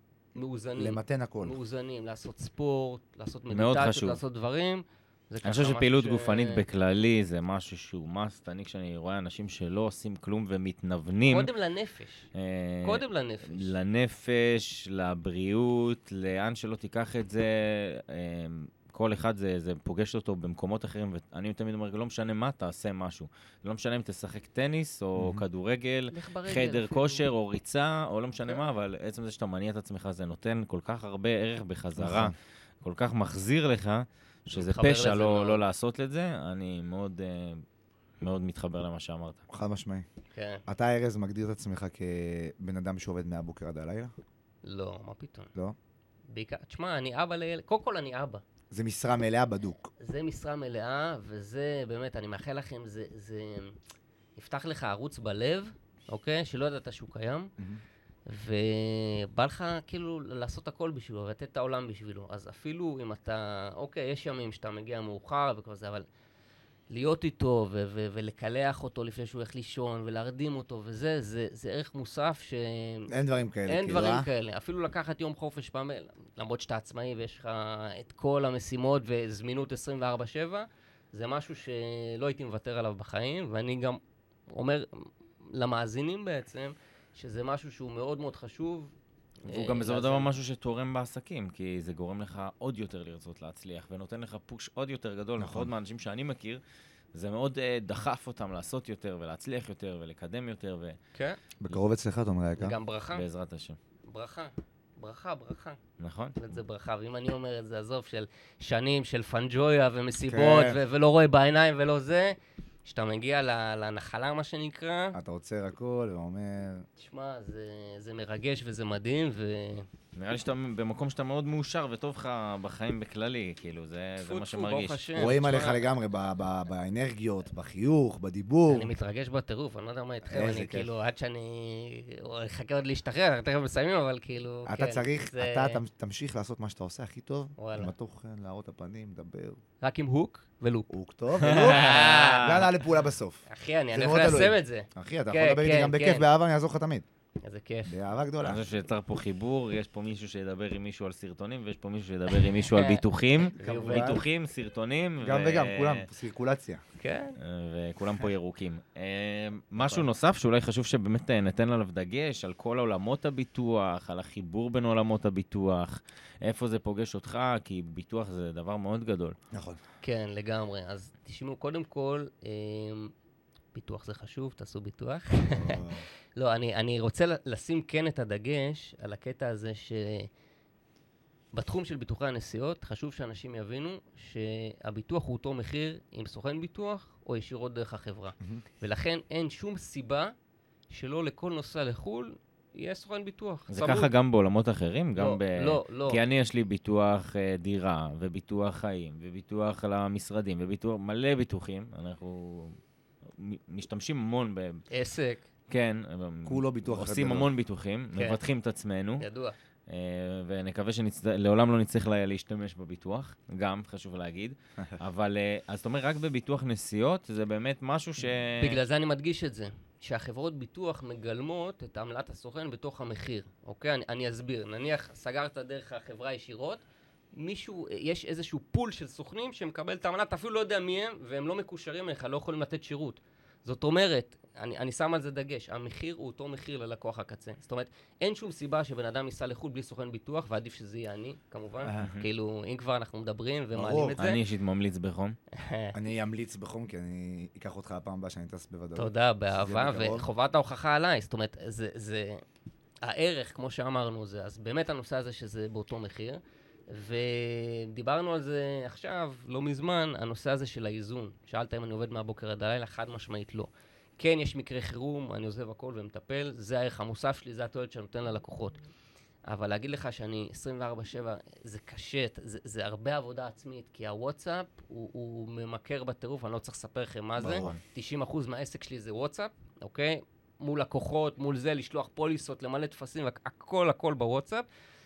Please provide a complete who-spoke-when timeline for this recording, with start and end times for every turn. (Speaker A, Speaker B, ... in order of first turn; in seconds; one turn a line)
Speaker A: 0.3-6.6
Speaker B: 0.8-1.6
Speaker C: 3.5-4.2
Speaker C: 5.4-11.5
Speaker A: 11.3-12.3
Speaker C: 12.3-37.6
Speaker A: 12.8-13.7
Speaker B: 25.2-25.4
Speaker A: 26.1-27.3
Speaker B: 32.0-32.3
Speaker A: 34.5-35.6
Speaker C: 38.2-39.4
Speaker B: 39.5-40.1
Speaker A: 40.3-40.6
Speaker B: 40.7-44.1
Speaker A: 44.6-45.5
Speaker A: 46.3-48.4
Speaker B: 48.7-49.9
Speaker A: 50.0-53.7
Speaker A: 54.4-57.5
Speaker B: 57.6-57.8
Speaker A: 58.3-66.1
Speaker A: 66.9-73.1
Speaker B: 73.1-74.3
Speaker A: 73.7-88.9
Speaker A: 89.5-90.3
Speaker C: 89.5-96.6
Speaker B: 95.4-95.7
Speaker C: 97.1-101.0
Speaker B: 101.6-102.8
Speaker A: 102.6-103.2
Speaker C: 103.1-103.8
Speaker A: 104.1-105.8
Speaker C: 106.0-106.4
Speaker A: 106.4-115.2
Speaker B: 110.3-110.8
Speaker B: 115.1-116.8
Speaker A: 117.0-119.9
Speaker C: 120.2-125.1
Speaker A: 124.2-125.9
Speaker B: 125.2-128.9
Speaker A: 128.7-135.8
Speaker B: 130.3-130.9
Speaker B: 134.7-139.6
Speaker A: 137.6-137.9
Speaker A: 139.8-140.9
Speaker B: 140.9-147.1
Speaker C: 141.4-142.7
Speaker A: 141.4-142.5
Speaker A: 143.5-146.3
Speaker A: 147.4-147.9
Speaker B: 147.9-148.6
Speaker C: 148.4-156.1
Speaker A: 152.3-153.0
Speaker A: 153.6-154.2
Speaker B: 153.6-154.2
Speaker B: 155.2-156.8
Speaker A: 157.0-157.4
Speaker C: 157.4-169.4
Speaker B: 159.8-160.1
Speaker B: 169.5-169.8
Speaker A: 170.0-173.1
Speaker A: 173.7-180.3
Speaker B: 175.5-176.1
Speaker A: 181.5-190.3
Speaker A: 190.9-194.1
Speaker C: 193.7-202.8
Speaker A: 195.2-196.2
Speaker C: 203.3-204.8
Speaker A: 204.9-205.4
Speaker C: 205.7-209.2
Speaker B: 206.4-207.5
Speaker A: 208.1-208.4
Speaker A: 209.2-209.6
Speaker C: 209.9-218.8
Speaker A: 218.6-226.8
Speaker A: 227.3-244.4
Speaker B: 241.8-242.1
Speaker C: 242.0-242.3
Speaker B: 243.7-244.2
Speaker C: 244.2-245.4
Speaker A: 245.5-245.9
Speaker B: 245.9-250.3
Speaker A: 248.9-252.4
Speaker A: 253.0-268.8
Speaker A: 269.5-284.7
Speaker B: 277.4-277.8